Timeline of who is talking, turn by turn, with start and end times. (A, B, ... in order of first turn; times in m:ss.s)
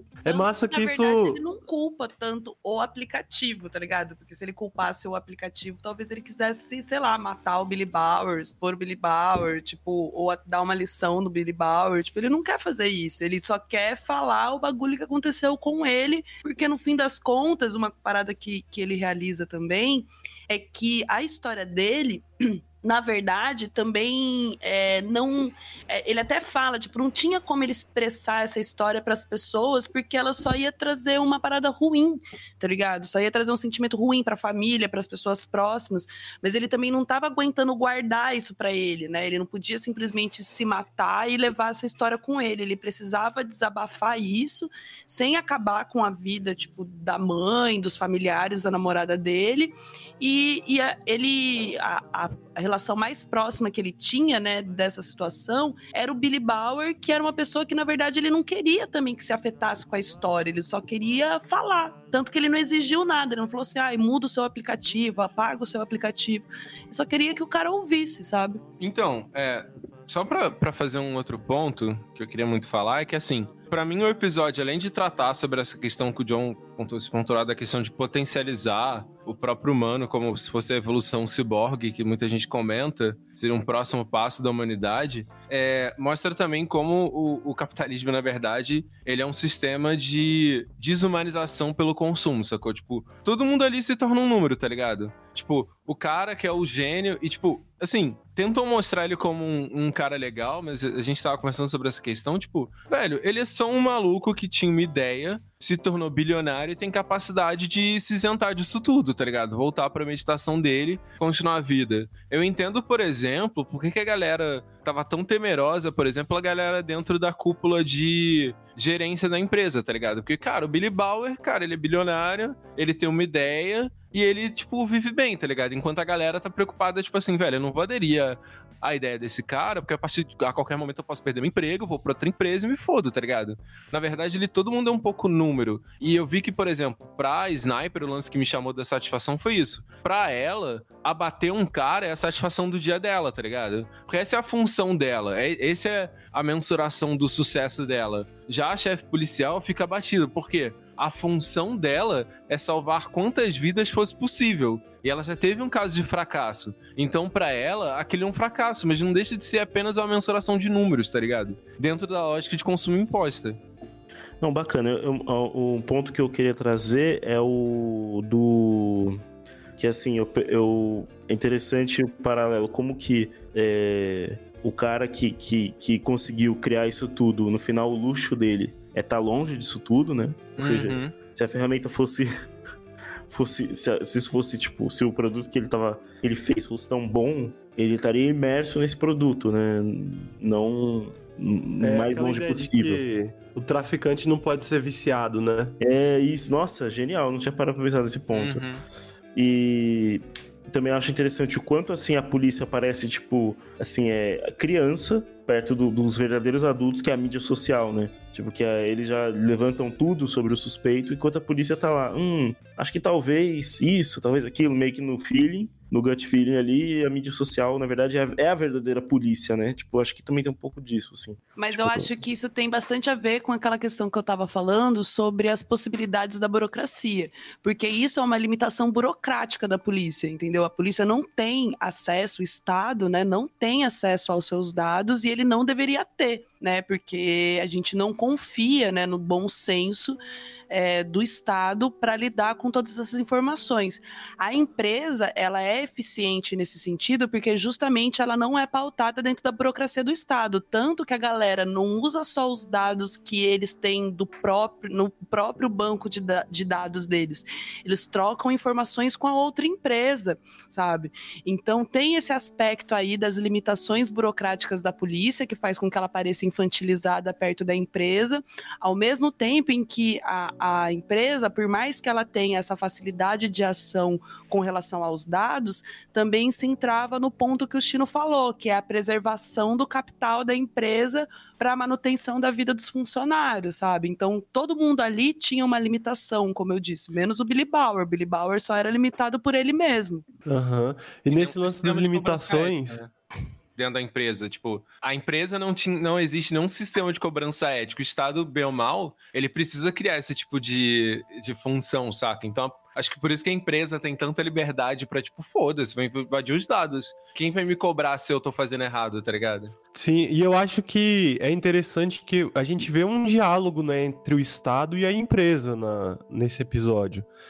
0:00.2-0:01.4 A
0:00.2-1:08.6 B
1:08.8-2:43.6 C
2:44.4-2:49.2 D
2:49.8-3:02.3 D
3:00.6-3:01.1 C
3:03.3-3:13.0 D
3:11.8-3:15.8 A
3:15.8-3:18.6 D
3:18.3-3:18.8 C
3:19.3-3:41.4 D
3:41.6-4:00.2 B
4:00.7-4:50.2 B
4:50.4-4:53.0 A
4:51.3-4:53.1 C
4:53.8-5:09.7 C
5:09.9-5:17.3 A